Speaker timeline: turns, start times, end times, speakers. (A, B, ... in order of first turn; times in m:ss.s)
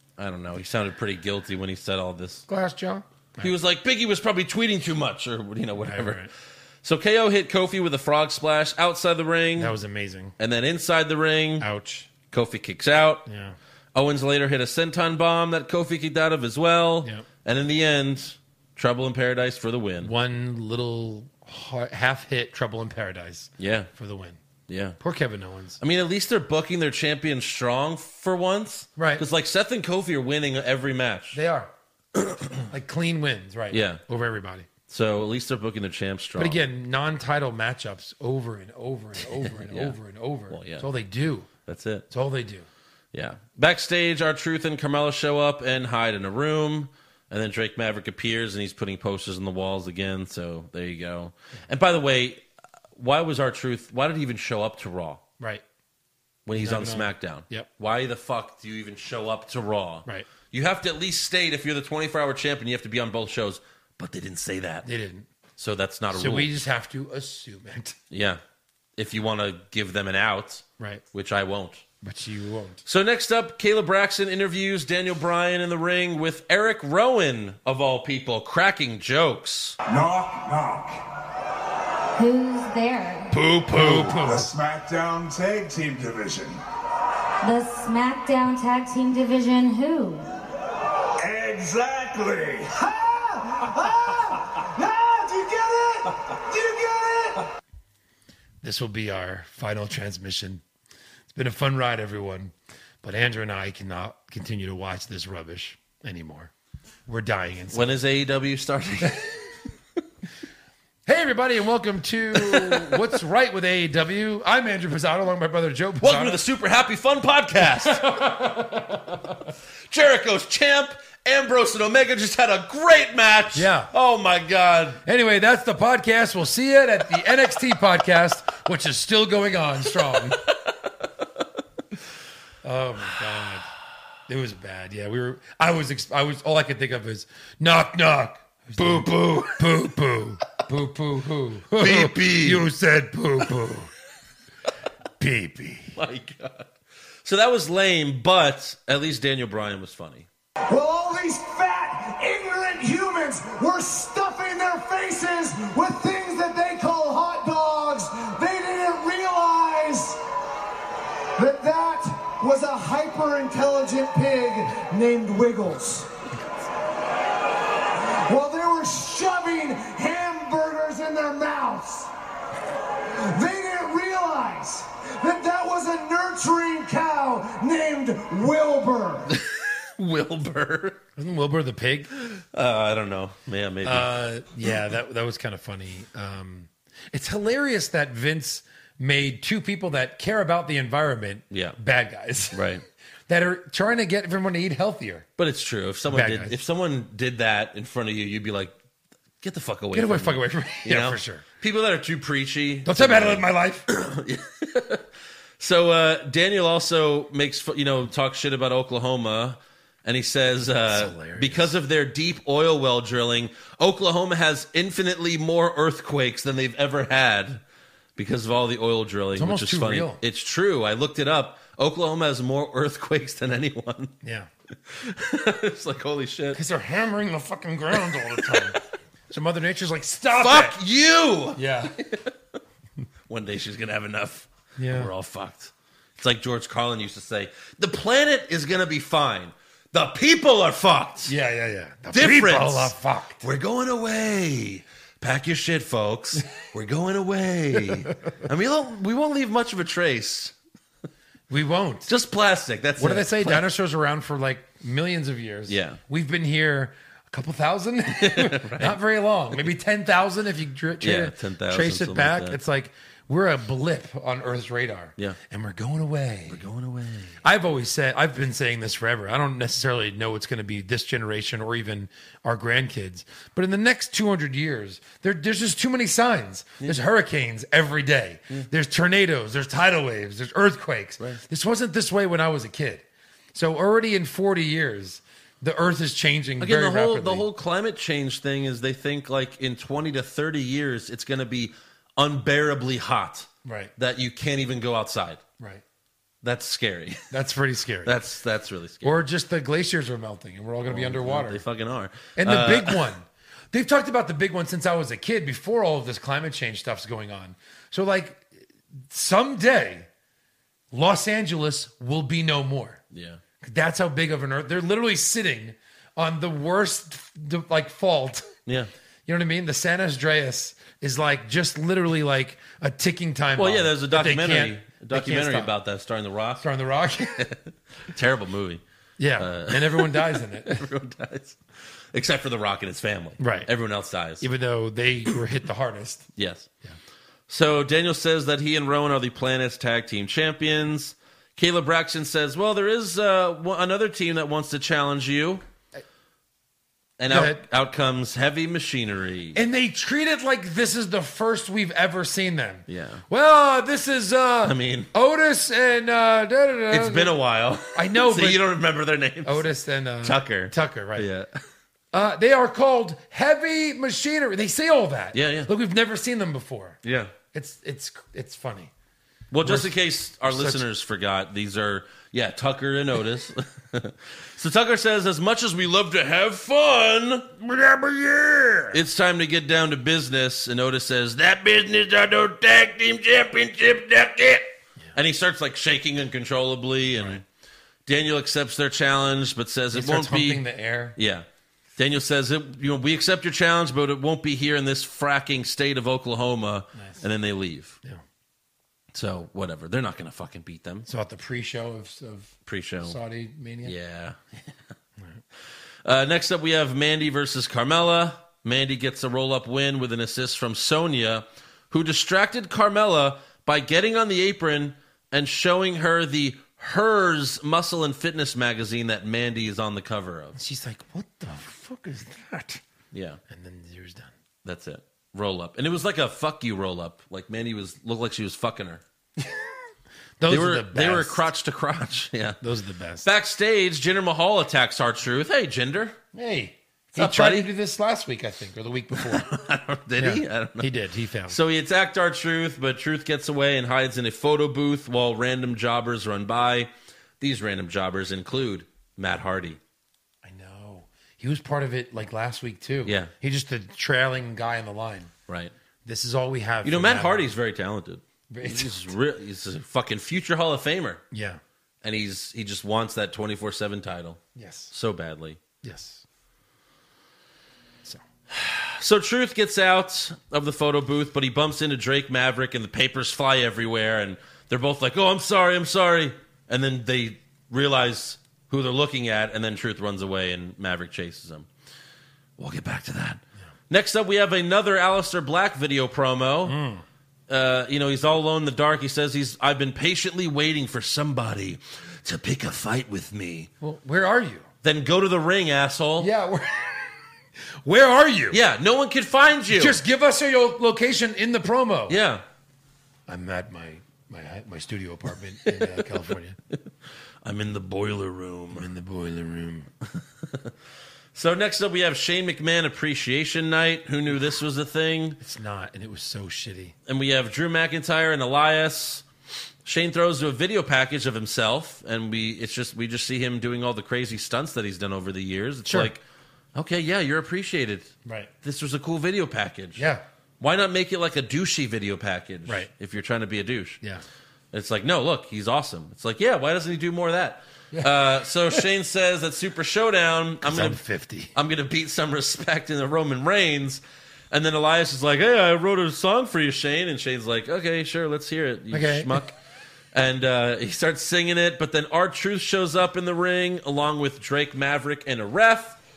0:00.2-0:02.4 A
0:02.5-0:03.5 B
0:03.4-0:06.3 A
0:05.9-0:06.3 B
0:06.8-0:09.8 A
0:09.6-0:10.3 B
0:10.4-0:11.7 A
0:11.6-0:12.1 B
0:12.3-0:13.2 A
0:13.2-0:13.6 B
0:13.9-0:20.1 A
0:20.0-0:24.4 B
0:23.6-0:23.9 A
0:24.7-0:25.0 A
0:25.0-0:25.8 B
0:25.8-0:31.4 A
0:29.0-0:29.2 B
0:31.3-0:31.7 B
0:32.1-0:32.6 A
0:32.7-0:34.7 B
0:33.7-0:34.0 A
0:34.9-0:36.6 A
0:36.4-0:41.5 B
0:39.2-0:40.0 A
0:40.5-0:40.9 A
0:41.6-0:42.1 A
0:42.1-0:42.7 B
0:43.1-0:52.4 A
0:52.9-0:55.2 A
0:56.4-1:04.8 A
0:56.5-0:57.7 B
1:04.8-1:05.3 B
1:05.6-1:06.5 A
1:06.1-1:08.0 B
1:08.1-1:08.4 A
1:09.0-1:11.8 A
1:12.0-1:12.8 B
1:12.8-1:19.8 A
1:19.9-1:21.0 C
1:22.2-1:23.3 D
1:23.3-1:24.2 A
1:23.7-1:24.5 B
1:24.2-1:26.6 C
1:27.4-1:30.3 D
1:31.2-1:32.7 C
1:32.8-1:37.4 E
1:38.6-1:40.6 B
1:41.3-1:46.5 B
1:47.1-1:48.0 B
1:47.7-1:49.4 A
1:51.0-1:56.4 B
1:52.3-1:53.0 A
1:56.0-1:58.3 A
1:57.8-1:59.2 B
1:59.9-2:05.0 A
2:03.5-2:03.9 B
2:05.0-2:10.4 B
2:12.6-2:13.7 B
2:14.3-2:23.9 B
2:18.8-2:19.5 A
2:21.7-2:22.7 A
2:25.2-2:25.9 B
2:25.9-2:26.7 A
2:27.2-2:30.3 A
2:30.7-2:40.2 E
2:41.4-2:46.1 E
2:48.2-2:52.1 E
2:53.1-2:59.3 E
2:59.3-3:01.0 A
3:01.2-3:02.1 B
3:02.2-3:04.1 A
3:03.8-3:12.6 B
3:11.5-3:11.8 A
3:12.5-3:12.8 A
3:13.3-3:15.3 B
3:15.4-3:18.8 A
3:16.1-3:16.6 B
3:19.4-3:25.0 A
3:19.9-3:21.4 B
3:22.8-3:23.8 B
3:25.6-3:37.6 A
3:30.8-3:31.7 B
3:38.2-3:44.2 A
3:39.3-3:40.2 B
3:44.2-3:44.5 B
3:44.8-3:46.6 A
3:46.5-3:48.8 B
3:47.9-3:48.8 A
3:49.3-3:50.8 B
3:50.3-3:52.3 A
3:51.6-3:51.9 B
3:53.3-4:01.3 A
3:54.8-3:55.1 B
4:01.3-4:03.4 B
4:02.1-4:10.5 A
4:11.5-4:12.1 B
4:12.1-4:13.6 A
4:13.0-4:26.6 B
4:15.7-4:16.0 A
4:18.2-4:19.0 A
4:21.0-4:22.6 A
4:26.5-4:27.4 A
4:27.4-4:47.5 B
4:46.6-4:55.4 A
4:53.6-4:53.9 B
4:56.4-4:57.3 A
4:57.3-4:58.2 B
4:58.0-4:59.2 A
4:59.0-5:01.6 B
5:00.8-5:03.1 A
5:02.4-5:08.5 B
5:09.1-5:10.1 B
5:10.9-5:13.0 B
5:13.1-5:13.4 A
5:13.6-5:18.6 B
5:18.6-5:18.9 A
5:19.2-5:25.7 B
5:23.5-5:26.6 A
5:26.6-5:27.4 B
5:27.4-5:28.8 A
5:29.2-5:30.9 B
5:29.4-5:31.6 A
5:32.1-5:34.5 A
5:33.4-5:33.7 B
5:34.4-5:36.3 B
5:36.4-5:36.7 A
5:37.5-5:45.6 A
5:47.2-5:49.6 A
5:47.3-5:47.6 B
5:49.5-5:57.4 B
5:52.9-5:53.2 A
5:54.6-5:55.1 A
5:56.9-5:59.7 A
5:57.9-5:58.6 B
5:59.4-6:01.3 B
6:00.2-6:01.6 A
6:02.1-6:07.0 B
6:05.3-6:05.7 A
6:07.0-6:07.3 A
6:07.5-6:08.9 B
6:09.5-6:17.5 A
6:09.6-6:09.9 B
6:10.4-6:10.8 B
6:17.6-6:19.0 B
6:18.9-6:27.4 A
6:28.0-6:30.6 A
6:29.9-6:31.2 B
6:31.2-6:31.4 A
6:32.0-6:38.0 A
6:37.0-6:37.2 B
6:39.1-6:41.1 A
6:41.1-6:44.0 B
6:42.6-6:43.2 A
6:43.8-6:44.4 A
6:46.0-7:00.6 A
7:00.5-7:02.8 B
7:03.1-7:03.4 A
7:03.5-7:04.3 B
7:04.6-7:09.0 A
7:10.4-7:11.4 B
7:10.5-7:12.6 A
7:12.6-7:13.3 B
7:13.2-7:16.2 A
7:16.3-7:19.5 B
7:17.1-7:17.7 A
7:19.1-7:21.0 A
7:20.2-7:21.6 B
7:21.5-7:29.8 A
7:30.4-7:35.3 B
7:33.0-7:33.3 A
7:36.0-7:37.4 B
7:36.8-7:41.2 A
7:38.5-7:39.1 B
7:41.3-7:41.6 B
7:42.0-7:45.6 A
7:44.5-7:44.9 B
7:45.8-7:46.2 B
7:48.5-8:01.7 A
8:02.6-8:06.8 A
8:06.6-8:07.0 B
8:07.5-8:13.7 A
8:13.8-8:14.7 B
8:14.8-8:16.3 A
8:16.2-8:17.1 B
8:17.8-8:18.6 B
8:18.5-8:20.0 A
8:19.7-8:22.2 B
8:22.1-8:22.4 A
8:23.3-8:26.6 B
8:25.6-8:26.8 A
8:27.4-8:28.9 A
8:28.7-8:29.9 B
8:30.2-8:30.7 A
8:31.3-8:35.4 A
8:35.4-8:36.9 B
8:37.1-8:39.2 A
8:39.8-8:46.2 A
8:45.9-8:46.1 B
8:46.7-8:50.0 A
8:48.2-8:48.5 B
8:50.0-8:50.2 B
8:50.6-8:54.0 A
8:54.7-9:01.0 A
8:57.9-8:58.8 B
9:00.6-9:01.5 B
9:01.5-9:09.5 A
9:08.9-9:09.5 B
9:10.1-9:16.0 A